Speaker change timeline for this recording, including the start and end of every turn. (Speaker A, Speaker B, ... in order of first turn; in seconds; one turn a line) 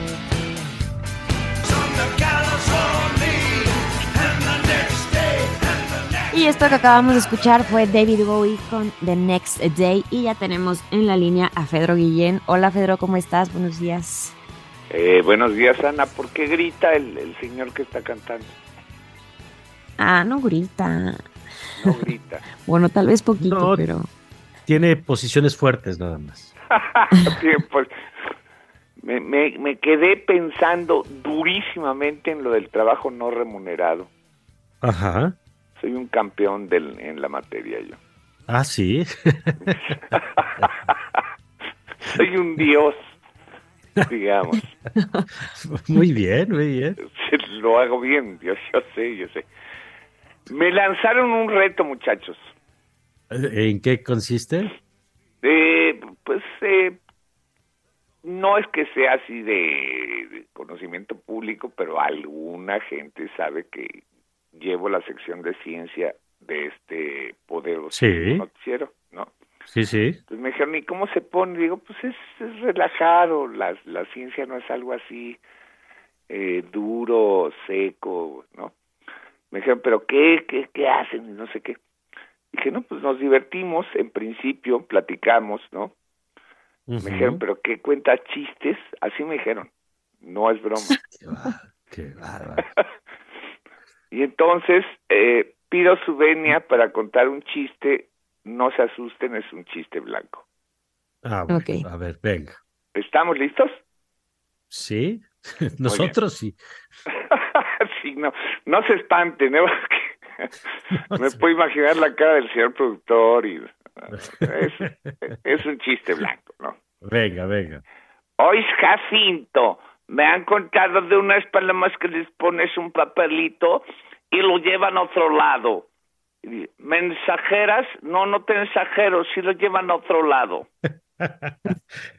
Speaker A: 2.1-3.6
Speaker A: 4.7-5.0
Speaker B: 6.3-14.3
Speaker C: 14.9-18.6
Speaker B: 20.0-21.2
Speaker C: 21.8-22.4
Speaker B: 22.6-24.1
Speaker A: 23.4-23.8
Speaker A: 24.6-26.5
Speaker C: 26.7-27.9
Speaker C: 29.0-34.1
Speaker A: 34.8-35.4
Speaker C: 35.8-38.0
Speaker A: 38.5-39.8
Speaker C: 40.1-40.6
Speaker C: 42.1-43.1
Speaker C: 44.1-44.7
Speaker B: 45.0-45.2
Speaker A: 45.4-47.0
Speaker C: 47.0-49.5
Speaker C: 50.5-52.5
Speaker A: 53.3-54.7
Speaker C: 55.4-57.0
Speaker C: 58.2-64.0
Speaker C: 64.5-69.3
Speaker A: 67.9-68.4
Speaker A: 69.7-70.2
Speaker C: 70.3-75.4
Speaker C: 76.3-78.7
Speaker C: 79.5-81.8
Speaker C: 82.5-85.9
Speaker A: 86.9-87.4
Speaker C: 87.0-89.7
Speaker C: 90.2-91.0
Speaker A: 91.0-92.7
Speaker C: 94.1-100.4
Speaker A: 101.2-102.6
Speaker B: 101.5-101.9
Speaker C: 102.9-103.8
Speaker A: 104.7-106.6
Speaker C: 105.9-106.2
Speaker C: 107.3-110.5
Speaker C: 111.1-116.8
Speaker A: 114.1-115.1
Speaker A: 117.0-117.8
Speaker C: 118.4-125.9
Speaker C: 126.4-130.7
Speaker A: 131.2-131.8